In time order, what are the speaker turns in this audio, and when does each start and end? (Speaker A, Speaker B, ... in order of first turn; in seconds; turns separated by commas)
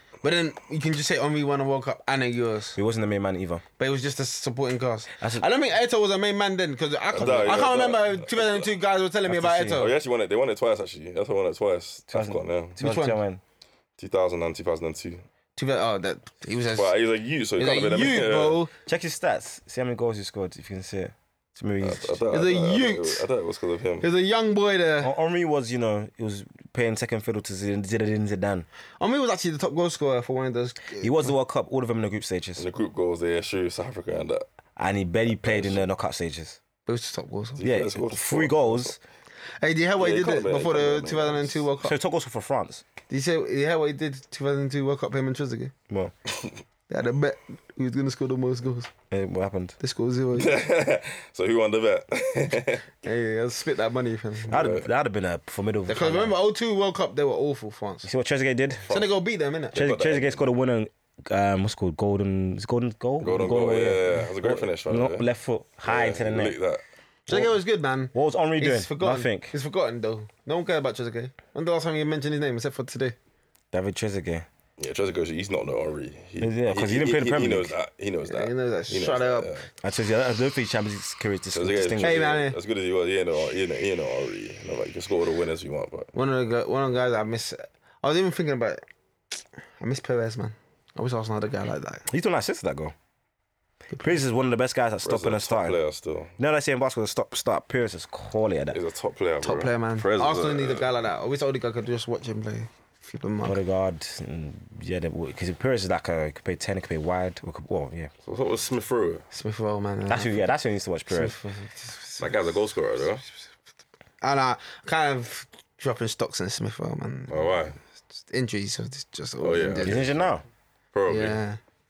Speaker A: 0.2-2.8, Speaker B: 2.8-3.6, Speaker A: 3.8-9.9, Speaker B: 5.2-5.5, Speaker C: 7.1-8.7, Speaker B: 9.3-9.8, Speaker C: 9.6-12.8, Speaker B: 12.1-13.4, Speaker A: 12.8-13.2, Speaker C: 14.0-15.2, Speaker A: 15.6-16.9, Speaker C: 16.7-18.6, Speaker A: 17.6-18.7, Speaker B: 18.9-22.2, Speaker C: 21.8-24.1, Speaker A: 22.3-23.2, Speaker A: 24.0-25.1, Speaker B: 25.0-28.7, Speaker A: 29.0-31.3, Speaker B: 31.0-32.6, Speaker C: 32.6-34.5, Speaker B: 34.8-36.6, Speaker C: 35.4-35.8, Speaker A: 36.9-37.7, Speaker C: 37.6-39.0, Speaker B: 37.6-39.0, Speaker A: 39.6-42.0, Speaker C: 40.0-41.6, Speaker B: 41.8-42.8, Speaker A: 43.1-45.7, Speaker A: 46.9-48.9, Speaker B: 49.1-49.8, Speaker A: 49.8-50.6, Speaker C: 50.3-52.9, Speaker A: 53.0-54.7, Speaker C: 54.5-54.9, Speaker B: 54.5-56.4, Speaker A: 55.9-58.1, Speaker B: 58.0-58.9, Speaker A: 58.9-59.8, Speaker C: 59.7-60.4, Speaker B: 59.8-66.6, Speaker C: 63.2-65.3, Speaker C: 65.8-66.8, Speaker A: 67.3-73.2, Speaker B: 67.3-67.6, Speaker B: 68.1-69.5, Speaker B: 73.7-74.5, Speaker C: 74.8-79.7, Speaker B: 76.4-77.8, Speaker A: 78.3-79.5, Speaker B: 79.8-82.3, Speaker C: 81.5-86.1, Speaker A: 82.0-82.6, Speaker A: 86.1-88.8, Speaker A: 89.8-92.1, Speaker B: 92.1-93.0, Speaker B: 94.0-95.8, Speaker C: 95.0-96.3, Speaker B: 96.4-98.8, Speaker C: 98.7-100.9, Speaker A: 99.4-103.6, Speaker B: 103.5-108.1, Speaker C: 108.2-109.2, Speaker A: 109.3-110.5, Speaker B: 110.1-111.4, Speaker A: 111.1-112.3, Speaker C: 112.2-113.2, Speaker A: 114.2-117.7, Speaker C: 117.3-117.8, Speaker A: 118.2-120.1, Speaker C: 119.4-120.3, Speaker B: 119.8-120.4, Speaker C: 120.9-121.4, Speaker A: 121.1-121.6